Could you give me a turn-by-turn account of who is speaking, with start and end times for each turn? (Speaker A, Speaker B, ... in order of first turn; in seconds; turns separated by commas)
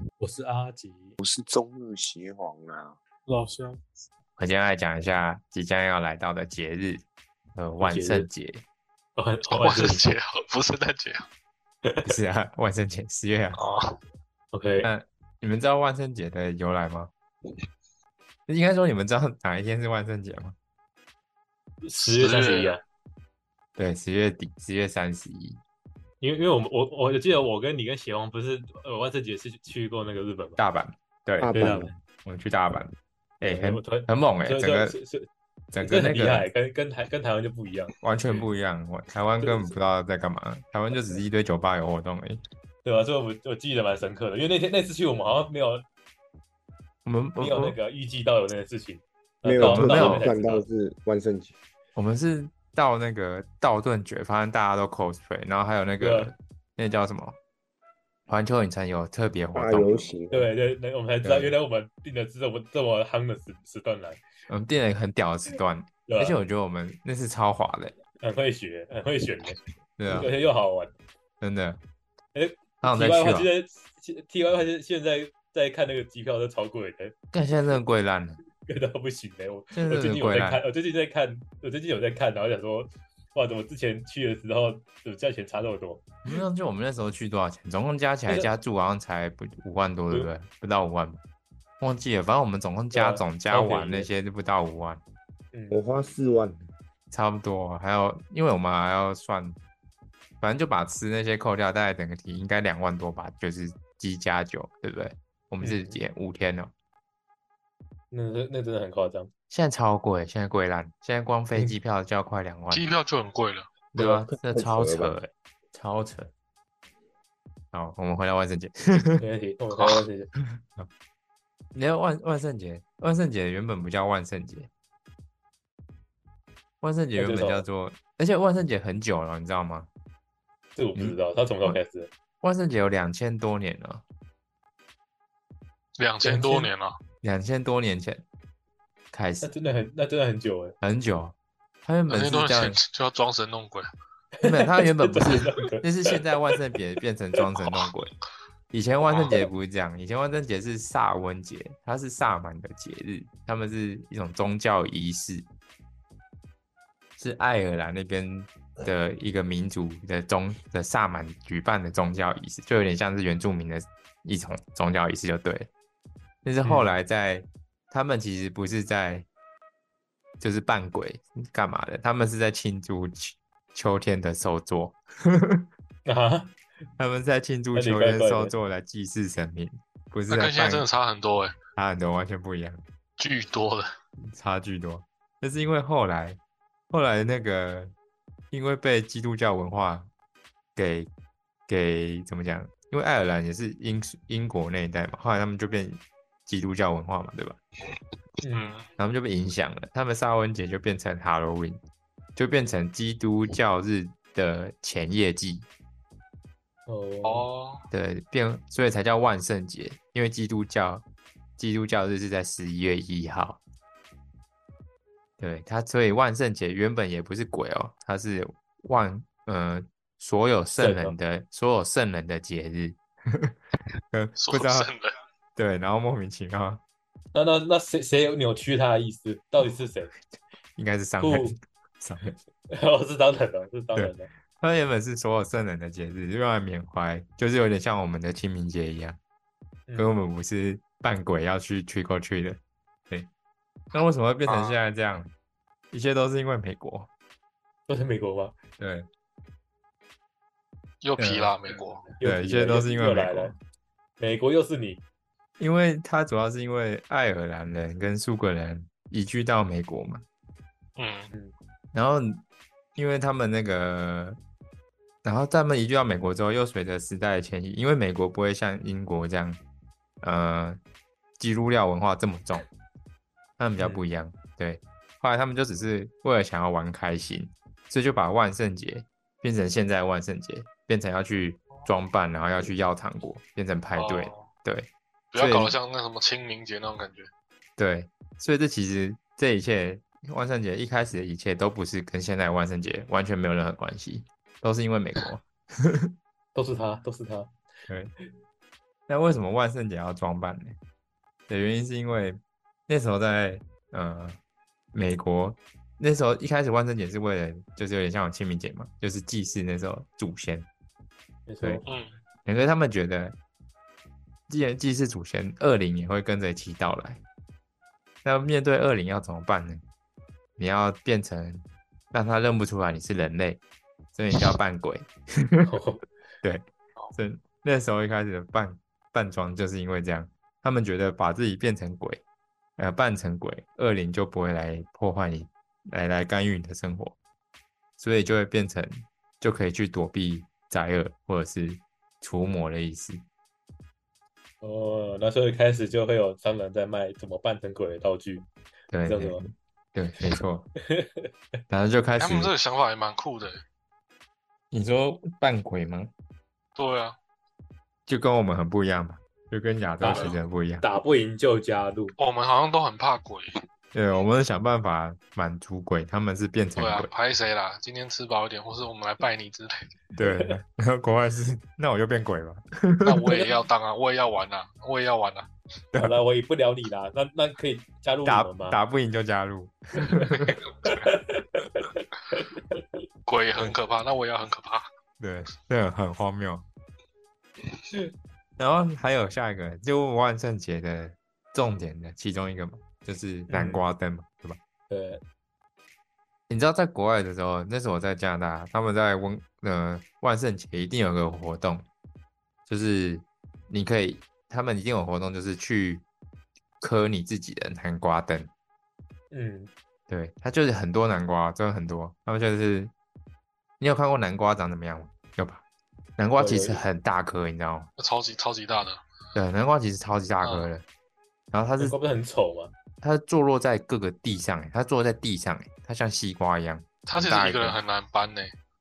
Speaker A: 0.2-1.1, Speaker B: 1.2-3.0, Speaker C: 4.4-7.0, Speaker C: 7.5-8.6, Speaker A: 7.8-8.3, Speaker A: 9.2-10.1, Speaker D: 9.5-11.3, Speaker C: 12.0-13.6, Speaker D: 13.6-13.9, Speaker A: 14.5-14.9, Speaker C: 14.8-17.1, Speaker C: 18.5-20.5, Speaker A: 21.8-22.8, Speaker D: 22.1-22.8, Speaker C: 23.8-25.6, Speaker A: 26.2-30.6, Speaker C: 30.6-31.7, Speaker B: 31.4-31.9, Speaker A: 31.5-31.9, Speaker C: 32.2-35.0, Speaker A: 33.4-35.3, Speaker C: 35.7-36.5, Speaker A: 35.8-37.9, Speaker C: 38.0-42.4, Speaker A: 39.4-39.7, Speaker A: 42.8-45.8, Speaker C: 47.0-47.8, Speaker A: 47.4-50.6, Speaker B: 49.4-51.5, Speaker C: 49.6-50.3, Speaker C: 52.0-57.4, Speaker A: 56.0-56.3, Speaker C: 58.3-60.0, Speaker B: 59.5-60.5, Speaker A: 60.3-64.2, Speaker C: 61.2-61.5, Speaker C: 64.5-67.9, Speaker A: 66.0-66.4, Speaker A: 68.2-70.9, Speaker C: 70.0-70.3, Speaker C: 71.4-71.8, Speaker A: 72.3-77.1, Speaker C: 72.8-73.5, Speaker C: 77.3-78.4, Speaker A: 78.6-86.0, Speaker C: 79.7-80.6, Speaker C: 86.2-91.2, Speaker C: 91.8-95.0, Speaker A: 92.9-94.1, Speaker A: 95.5-95.8, Speaker B: 95.7-96.7, Speaker C: 97.1-99.6, Speaker C: 100.4-106.7, Speaker A: 105.6-106.0, Speaker A: 108.1-109.3, Speaker C: 109.5-112.9, Speaker D: 112.7-113.7, Speaker C: 113.9-116.3, Speaker B: 114.0-115.1, Speaker C: 117.7-119.2, Speaker A: 119.2-120.3, Speaker C: 120.6-120.9, Speaker C: 121.7-124.7, Speaker C: 126.8-129.9, Speaker A: 127.2-127.6, Speaker A: 130.8-132.1, Speaker C: 130.9-131.7, Speaker C: 132.4-134.0, Speaker D: 136.0-136.9, Speaker A: 136.2-136.7, Speaker C: 137.2-138.2, Speaker C: 139.1-139.5, Speaker A: 139.4-140.8, Speaker C: 140.8-142.8, Speaker D: 142.1-143.9, Speaker A: 144.4-146.1, Speaker C: 144.4-148.1, Speaker C: 148.7-155.4, Speaker D: 149.1-149.4, Speaker C: 157.2-165.7, Speaker C: 166.4-169.3, Speaker A: 166.6-166.9, Speaker C: 170.4-175.7, Speaker A: 176.1-176.5, Speaker C: 177.0-180.8, Speaker A: 177.7-178.5, Speaker D: 180.3-181.5, Speaker C: 181.8-182.8, Speaker D: 183.2-183.9, Speaker C: 184.3-186.4, Speaker C: 186.9-187.9, Speaker C: 188.5-190.1, Speaker C: 190.8-191.1, Speaker C: 191.7-197.6, Speaker A: 198.4-198.8, Speaker D: 198.5-198.9, Speaker C: 199.0-201.8, Speaker C: 202.3-205.7, Speaker A: 206.9-207.4, Speaker D: 207.2-207.8, Speaker C: 207.9-211.0, Speaker C: 211.6-213.6, Speaker C: 215.4-223.5, Speaker A: 220.8-221.1, Speaker C: 224.1-224.9, Speaker D: 224.4-225.1, Speaker C: 225.6-226.8, Speaker A: 227.3-230.1, Speaker C: 230.8-232.3, Speaker A: 231.2-231.6, Speaker A: 232.7-234.3, Speaker C: 233.9-239.2, Speaker A: 239.9-240.1, Speaker C: 239.9-243.3, Speaker C: 243.9-245.3, Speaker D: 244.0-244.7, Speaker C: 245.9-247.1, Speaker A: 247.9-248.5, Speaker C: 248.8-249.1, Speaker D: 251.0-252.1, Speaker C: 251.2-251.5, Speaker A: 252.2-253.5, Speaker C: 252.2-253.6, Speaker A: 254.2-255.0, Speaker C: 255.6-260.2, Speaker D: 261.0-261.3, Speaker C: 261.9-262.4, Speaker C: 262.9-264.4, Speaker C: 265.2-269.6, Speaker C: 270.2-270.8, Speaker C: 271.4-272.7, Speaker C: 273.6-285.7, Speaker A: 273.8-274.0, Speaker D: 283.9-284.5, Speaker D: 285.3-287.3, Speaker C: 287.8-296.1, Speaker A: 296.5-297.5, Speaker C: 297.9-298.1, Speaker C: 299.1-300.8, Speaker C: 301.5-304.4, Speaker C: 304.9-310.7, Speaker A: 311.5-311.9, Speaker D: 311.8-312.1, Speaker C: 312.4-313.3, Speaker C: 314.5-317.2, Speaker C: 318.2-319.8, Speaker C: 320.6-323.6, Speaker C: 324.1-325.7, Speaker A: 325.7-326.0, Speaker C: 326.4-332.2, Speaker C: 332.8-337.1, Speaker C: 338.0-343.2, Speaker A: 344.6-348.5, Speaker C: 348.9-350.7, Speaker A: 349.0-349.4, Speaker A: 350.9-351.3, Speaker C: 351.7-352.5, Speaker D: 352.2-353.6, Speaker C: 354.7-356.1, Speaker D: 356.8-357.1, Speaker C: 358.1-360.8, Speaker A: 360.0-362.1, Speaker D: 362.2-363.6, Speaker C: 363.9-367.1, Speaker D: 366.8-369.8, Speaker C: 370.2-373.5, Speaker A: 370.2-370.5, Speaker D: 373.0-375.5, Speaker A: 375.9-378.8, Speaker C: 378.2-380.6, Speaker A: 380.0-382.5, Speaker D: 380.8-381.1, Speaker D: 383.3-384.9, Speaker C: 385.2-386.6, Speaker C: 388.6-394.6, Speaker A: 393.5-393.8, Speaker A: 394.9-395.2, Speaker C: 396.5-401.8, Speaker C: 402.7-406.0, Speaker C: 406.8-408.5, Speaker A: 409.3-409.7, Speaker C: 410.1-412.9, Speaker C: 413.8-415.6, Speaker C: 416.2-417.9, Speaker A: 416.4-416.8, Speaker D: 418.0-419.0, Speaker C: 419.3-420.8, Speaker D: 420.4-420.7, Speaker C: 421.5-422.0, Speaker A: 421.8-422.7, Speaker C: 423.0-427.8, Speaker D: 427.1-428.5